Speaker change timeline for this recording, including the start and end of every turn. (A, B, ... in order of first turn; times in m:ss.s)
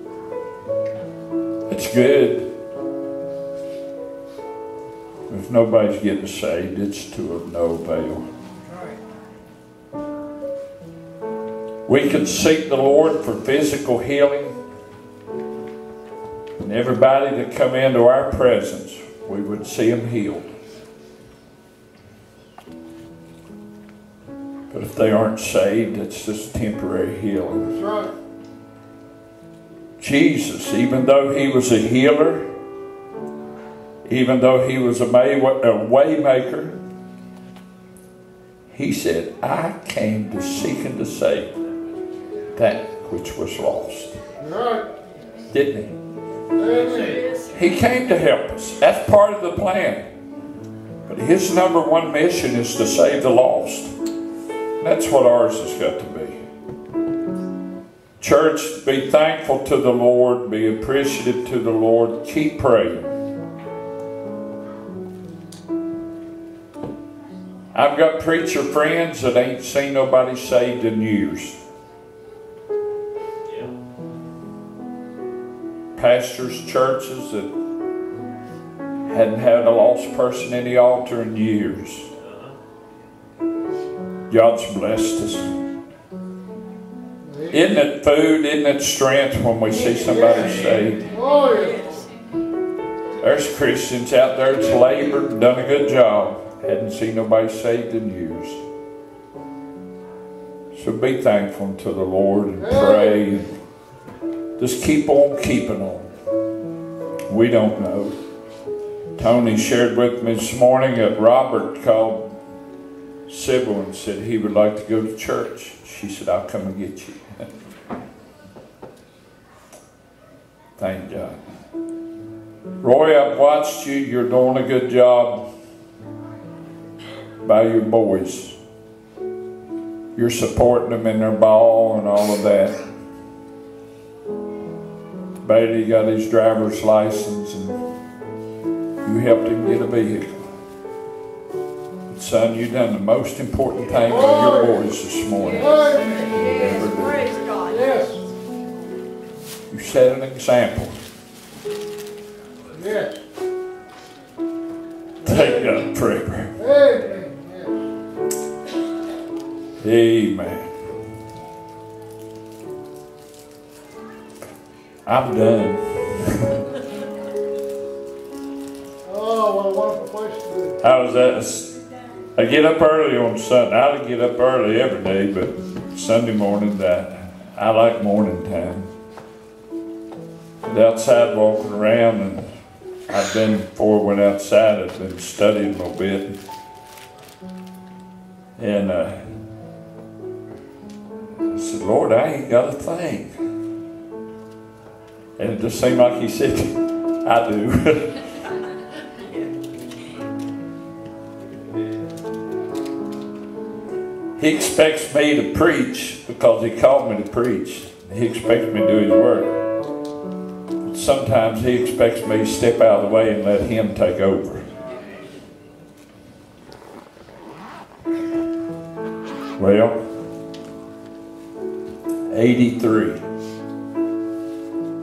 0:01.7-0:02.5 A
0:05.3-0:08.2 A
0:11.9-0:14.5 A
0:16.6-0:20.5 A
0:24.7-0:27.8 A
0:27.8-0:28.1 B
0:30.0-0:32.5 A
0:34.1-0:36.8 A
0:38.7-0:41.5 A
0:42.6-0:44.2 A
0:44.4-0:44.9 B
0:45.5-0:46.0 A
0:46.6-0:47.3 B
0:47.0-0:47.4 C
0:47.5-0:50.0 A
0:51.1-0:53.9 A
0:54.8-0:56.4 A
0:58.2-1:03.1 A
1:07.7-1:11.6 A
1:16.0-1:17.5 A
1:19.0-1:22.1 A
1:24.3-1:25.5 A
1:27.2-1:27.5 B
1:27.5-1:31.1 A
1:31.1-1:31.9 B
1:33.2-1:38.6 A
1:40.7-1:43.5 A
1:42.6-1:43.3 B
1:44.6-1:46.1 A
1:47.3-1:48.2 A
1:49.2-1:52.3 A
1:53.3-1:57.2 A
2:00.8-2:01.4 A
2:02.8-2:05.5 A
2:07.4-2:08.6 A
2:10.2-2:12.8 A
2:15.4-2:17.8 A
2:19.0-2:20.5 A
2:22.1-2:27.3 A
2:24.1-2:24.8 B
2:25.5-2:26.3 B
2:25.6-2:27.9 C
2:27.7-2:28.2 B
2:29.7-2:31.0 A
2:32.7-2:33.2 B
2:35.2-2:36.6 A
2:35.2-2:35.8 B
2:36.6-2:37.8 B
2:39.8-2:40.7 A
2:45.0-2:46.6 A
2:49.0-2:50.8 B
2:50.8-2:51.8 A
2:52.4-2:58.9 A
3:00.6-3:02.5 A
3:03.1-3:06.4 A
3:08.6-3:09.2 A
3:11.5-3:13.3 A
3:15.4-3:18.2 A
3:24.4-3:29.6 A
3:30.8-3:34.6 A
3:39.6-3:40.0 A
3:42.3-3:43.2 A